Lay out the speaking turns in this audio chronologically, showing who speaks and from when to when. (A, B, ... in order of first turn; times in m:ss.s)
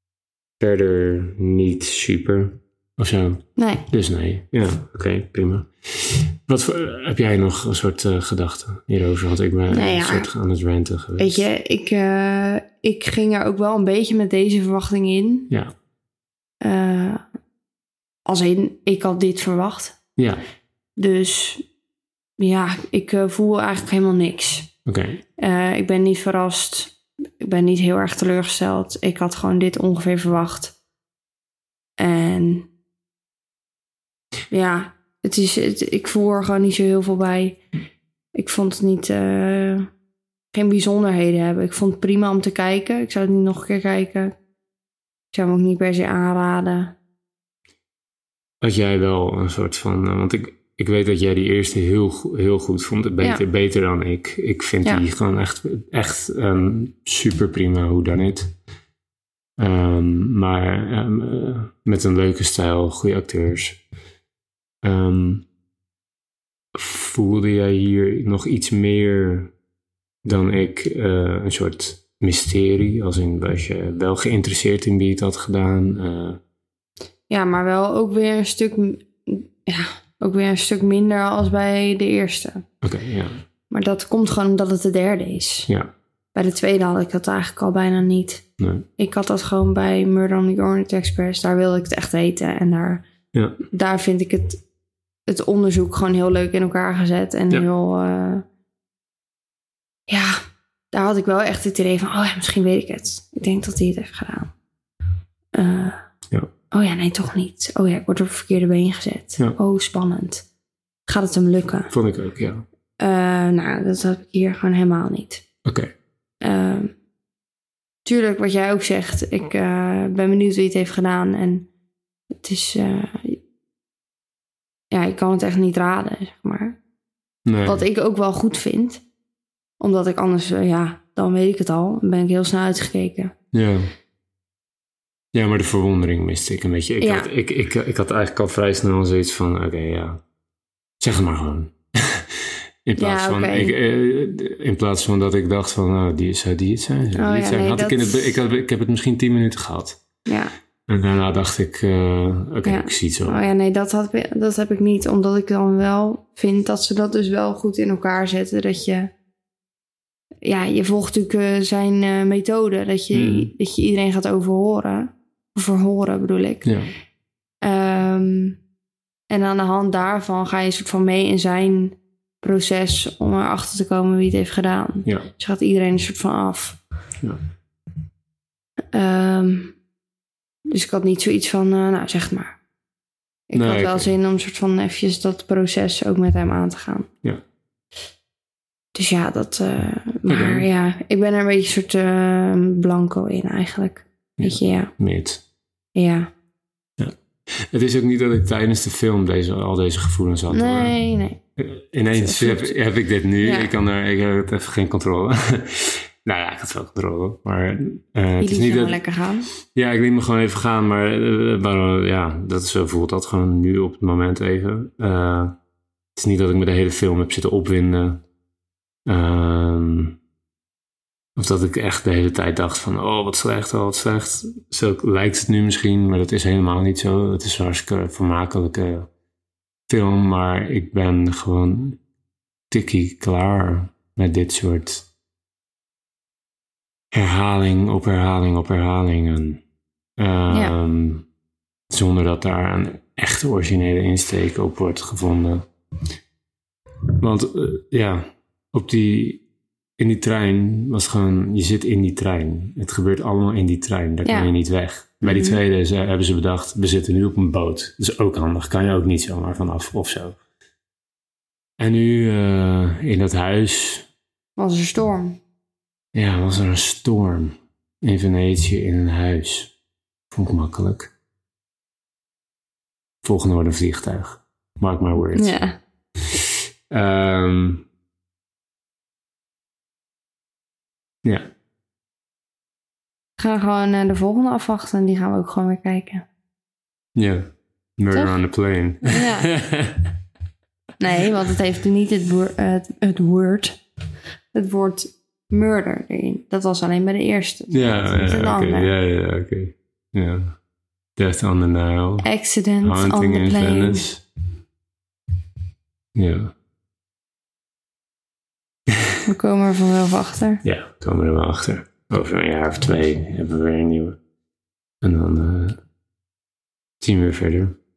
0:00.6-0:11.5 A
0:03.6-0:03.9 B
0:09.7-0:10.3 B
0:11.2-0:15.5 B
0:16.6-0:17.2 B
0:18.3-0:20.0 B
0:20.2-0:20.4 A
0:21.0-0:21.6 B
0:22.4-0:24.7 B
0:24.9-0:25.2 A
0:25.4-0:30.7 B
0:32.0-0:32.7 B
0:34.5-0:37.6 B
0:38.4-0:39.9 B
0:40.5-0:44.4 B
0:45.3-0:47.0 B
0:48.6-0:58.5 A
0:59.6-1:03.8 A
1:04.8-1:05.5 A
1:06.8-1:09.5 A
1:10.2-1:16.4 A
1:17.3-1:22.6 B
1:22.8-1:23.4 A
1:23.7-1:25.7 B
1:26.4-1:28.4 B
1:28.6-1:28.9 A
1:29.0-1:33.0 B
1:33.7-1:34.6 B
1:35.3-1:38.4 B
1:40.1-1:40.4 B
1:40.9-1:44.5 B
1:45.5-1:46.0 B
1:46.7-1:50.4 B
1:51.1-1:51.9 B
1:51.9-1:52.7 A
1:53.0-1:55.4 B
1:55.6-1:55.9 A
1:56.4-1:56.9 B
1:58.0-2:01.7 B
2:02.4-2:03.4 B
2:04.9-2:06.8 B
2:07.5-2:07.8 A
2:07.6-2:09.0 B
2:09.8-2:13.4 B
2:13.5-2:13.9 A
2:15.3-2:20.2 A
2:17.0-2:17.3 B
2:21.0-2:30.0 A
2:23.0-2:23.8 B
2:27.2-2:28.4 B
2:30.3-2:30.5 B
2:30.9-2:33.4 A
2:32.6-2:39.1 B
2:40.4-2:46.7 B
2:43.1-2:43.5 A
2:46.6-2:46.9 A
2:47.6-2:48.6 B
2:49.3-2:56.8 B
2:58.9-2:59.8 B
3:00.7-3:02.6 B
3:03.5-3:07.1 B
3:03.5-3:04.1 A
3:09.0-3:14.9 B
3:10.3-3:10.7 A
3:14.4-3:15.4 A
3:16.0-3:16.3 B
3:17.0-3:21.0 A
3:20.5-3:21.4 B
3:21.6-3:29.0 A
3:22.1-3:22.8 B
3:23.4-3:23.8 B
3:28.4-3:29.5 B
3:29.7-3:35.6 A
3:36.2-3:38.2 A
3:39.1-3:40.2 A
3:41.4-3:49.1 A
3:49.9-3:52.0 A
3:52.7-3:55.1 A
3:57.1-3:59.6 A
4:00.2-4:01.3 A
4:01.9-4:05.7 A
4:07.2-4:09.4 A
4:10.0-4:20.4 A
4:14.2-4:14.5 B
4:15.2-4:15.6 B
4:21.8-4:24.1 A
4:24.6-4:25.4 B
4:26.1-4:29.7 A
4:30.3-4:31.1 A
4:33.2-4:35.6 A
4:35.3-4:35.8 B
4:36.2-4:37.9 A
4:43.4-4:46.3 B
4:47.2-4:47.5 A
4:48.0-4:50.1 A
4:49.0-4:49.5 B
4:51.0-4:53.8 B
4:54.5-4:58.9 B
4:57.7-5:00.6 A
5:01.2-5:02.3 A
5:02.2-5:04.0 B
5:02.8-5:04.2 A
5:06.2-5:06.5 A
5:09.2-5:10.6 B
5:10.6-5:14.2 A
5:15.0-5:15.8 A
5:17.0-5:17.8 A